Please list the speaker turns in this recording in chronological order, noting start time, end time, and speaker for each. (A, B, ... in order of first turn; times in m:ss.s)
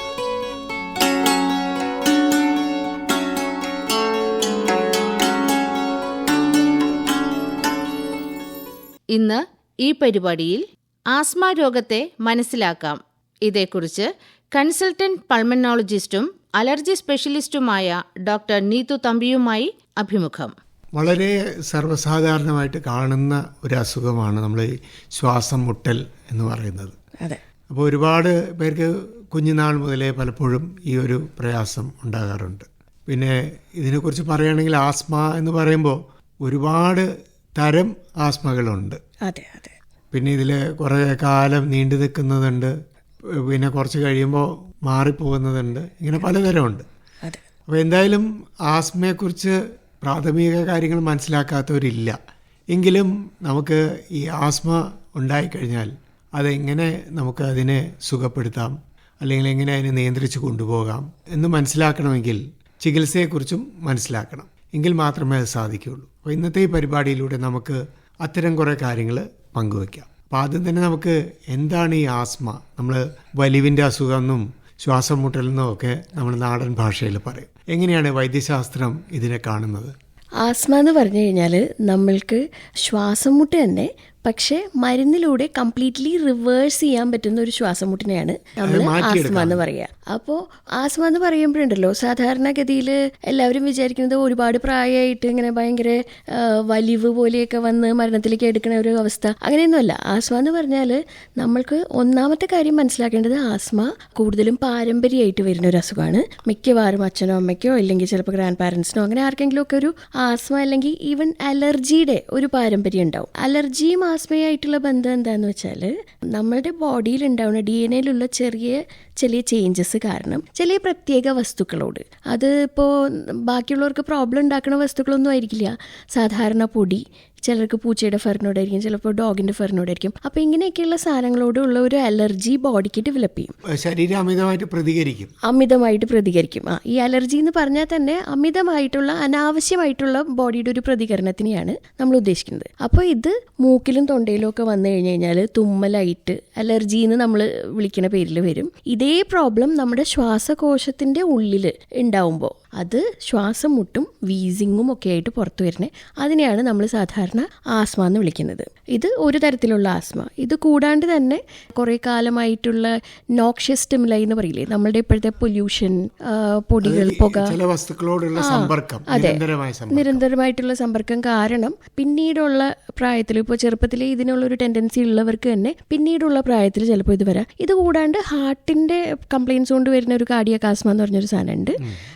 0:09.1-0:20.5 A
0:21.0-0:26.9 B
0:27.7-0:39.0 B
0:39.3-0:39.7 C
0:40.1-0:42.7 B
0:43.4-0:46.9 B
0:47.7-0:52.2 B
0:52.7-1:19.9 B
1:20.4-2:13.6 C
1:28.6-1:29.6 B
2:13.7-2:15.3 B
2:15.4-2:47.6 C
2:46.8-2:50.2 B
2:48.4-3:01.8 C